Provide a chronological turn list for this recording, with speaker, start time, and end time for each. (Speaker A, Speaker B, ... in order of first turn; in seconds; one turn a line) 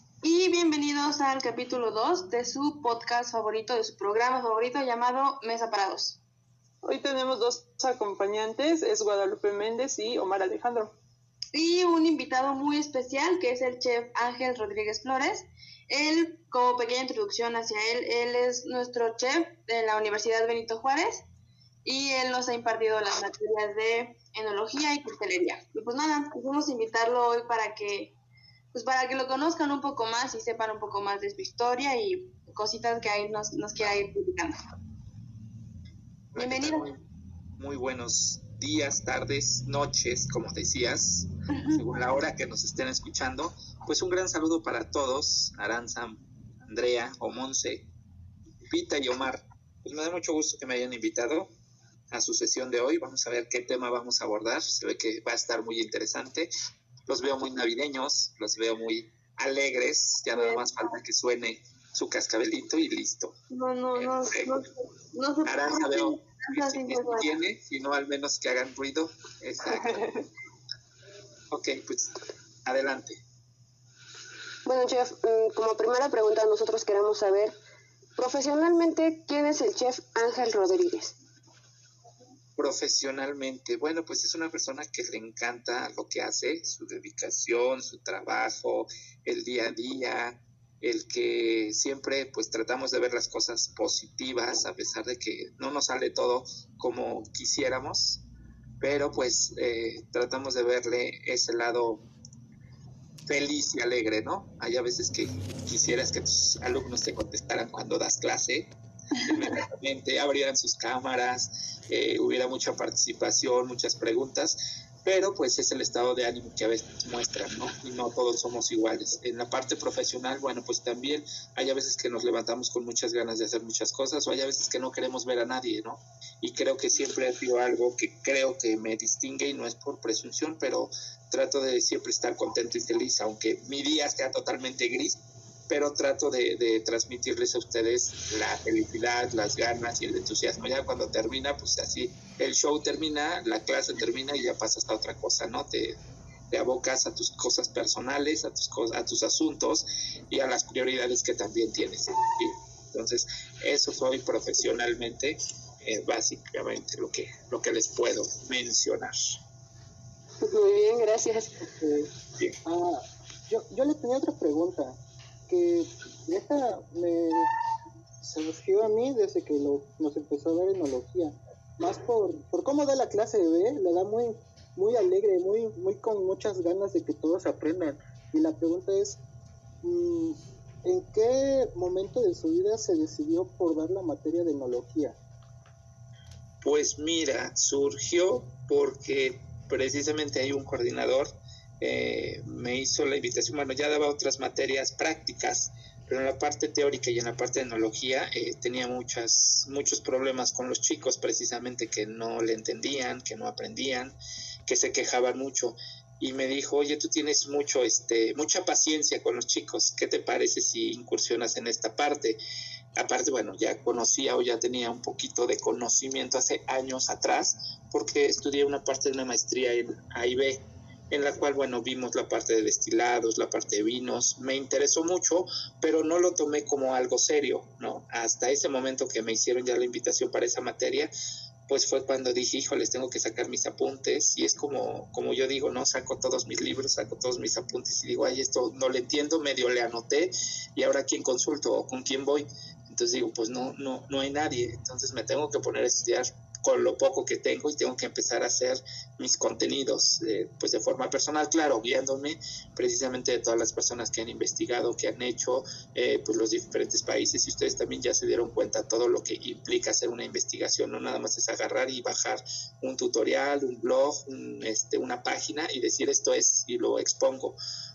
Speaker A: 0.2-6.2
Speaker B: 6.8-10.9
Speaker A: 11.5-21.2
Speaker A: 21.9-28.1
Speaker A: 28.7-34.6
Speaker C: 36.3-37.0
Speaker A: 36.4-36.9
Speaker C: 37.6-47.9
Speaker A: 41.5-41.8
Speaker C: 48.7-51.5
Speaker C: 52.1-56.5
Speaker C: 57.1-63.4
Speaker A: 60.3-61.0
Speaker A: 63.5-67.3
Speaker C: 64.0-64.6
Speaker C: 65.5-70.1
Speaker B: 69.7-70.3
Speaker C: 71.5-72.2
Speaker C: 72.7-73.2
Speaker D: 74.7-77.5
Speaker D: 78.2-81.1
Speaker C: 82.6-98.2
Speaker C: 98.8-102.0
Speaker C: 103.3-108.7
Speaker C: 109.2-146.0
Speaker C: 146.5-159.4
Speaker D: 160.4-161.7
Speaker E: 161.8-162.1
Speaker E: 162.7-165.0
Speaker E: 165.5-167.5
Speaker E: 168.2-179.2
Speaker E: 179.8-185.2
Speaker C: 186.6-212.4
Speaker C: 212.9-231.1
Speaker C: 231.7-267.6